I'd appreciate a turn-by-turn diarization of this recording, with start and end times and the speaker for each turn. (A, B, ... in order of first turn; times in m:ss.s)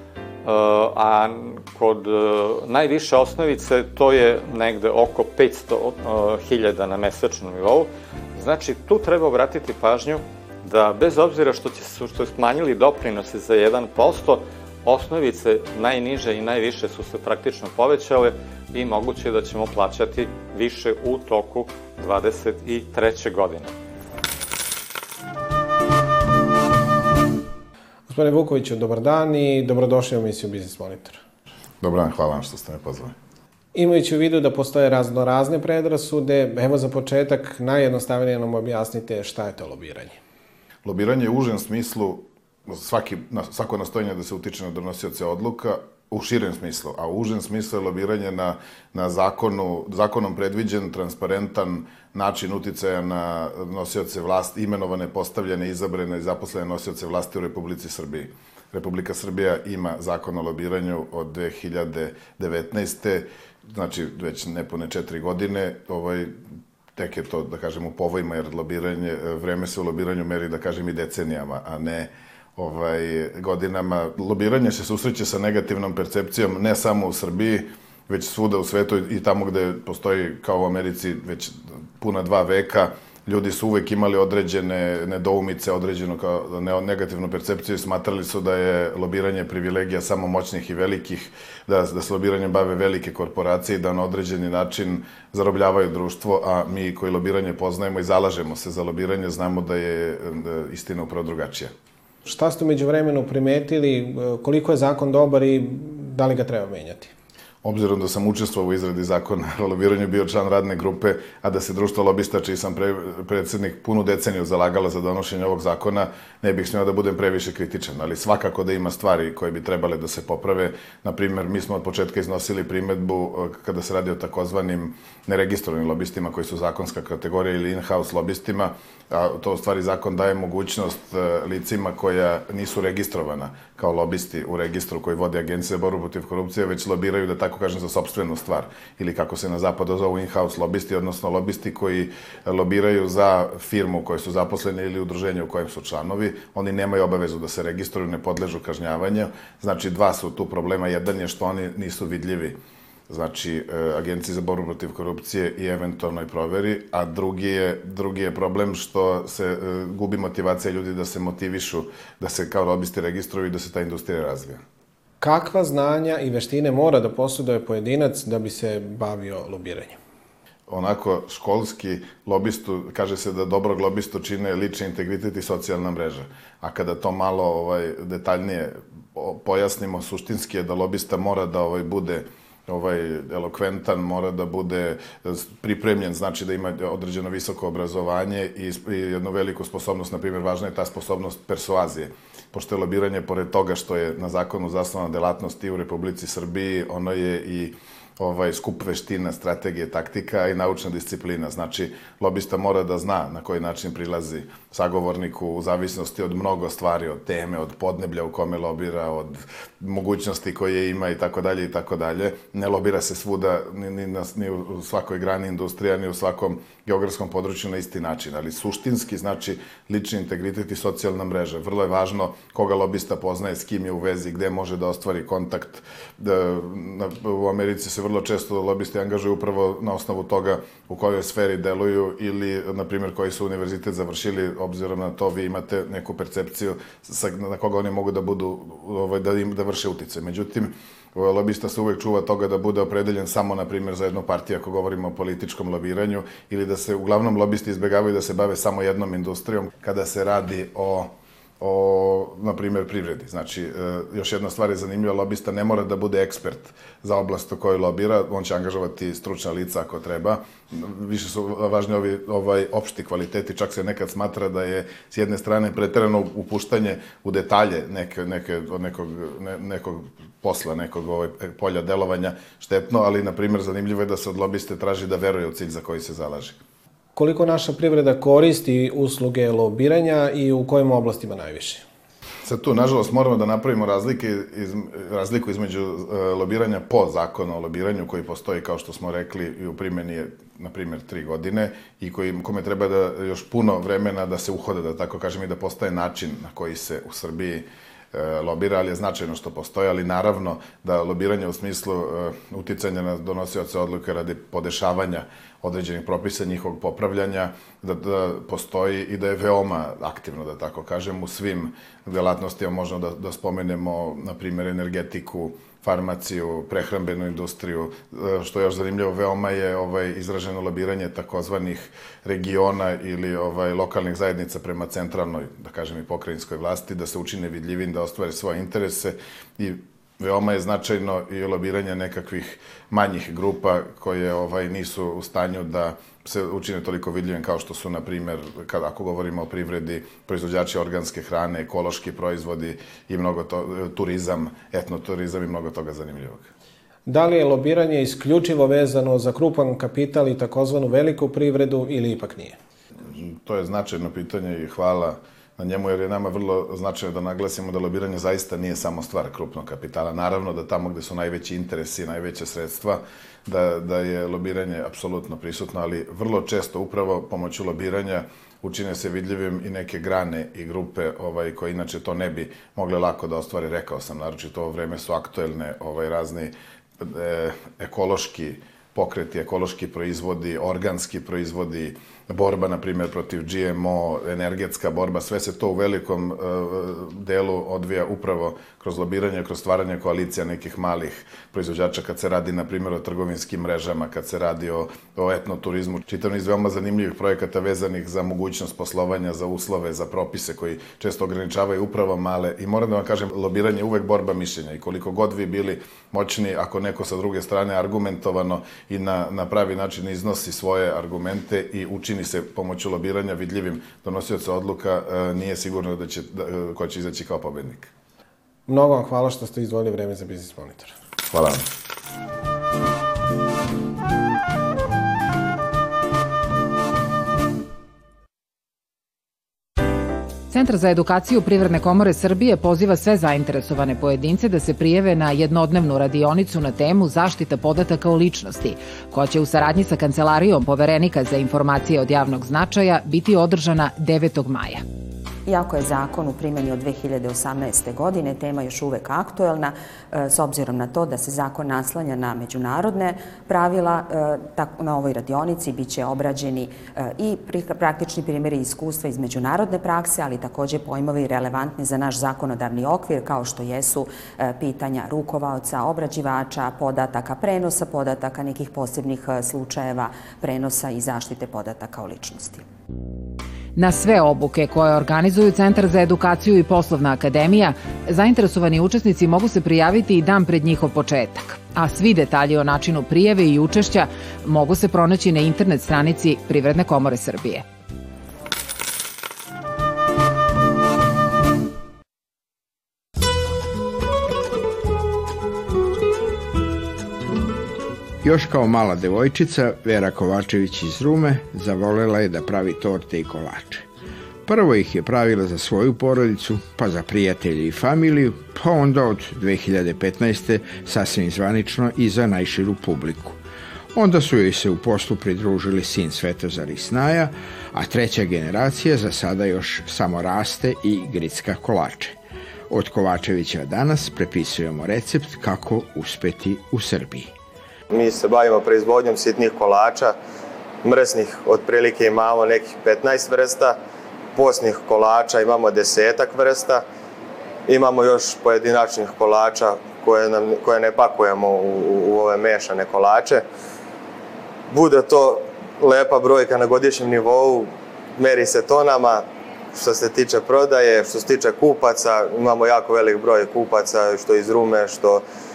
0:00.4-0:23.7 A
0:28.1-0:31.2 B
0:31.8-0:33.2 C
0:33.7-0:40.2 B
0:40.8-1:06.3 C
1:06.9-1:41.7 C
1:42.2-1:47.1 B
1:47.6-2:32.6 C
2:33.1-2:44.6 C
2:45.2-2:50.0 B
2:50.7-4:36.6 C
4:37.2-4:41.8 B
4:42.4-5:46.5 C
5:47.0-5:52.6 B
5:53.0-6:57.9 C
6:58.7-7:00.9 B
7:01.3-7:01.6 C
7:10.5-7:24.8 D
7:25.4-7:52.6 E
7:53.8-8:07.6 D
8:18.2-8:23.8 F
8:24.4-8:33.4 F
8:33.9-8:42.2 F
8:42.7-8:47.3 F
8:47.9-8:50.1 G
8:50.8-8:53.8 G
8:54.3-8:56.8 G
8:57.7-9:03.4 G
9:04.7-9:09.2 G
9:09.7-9:15.2 G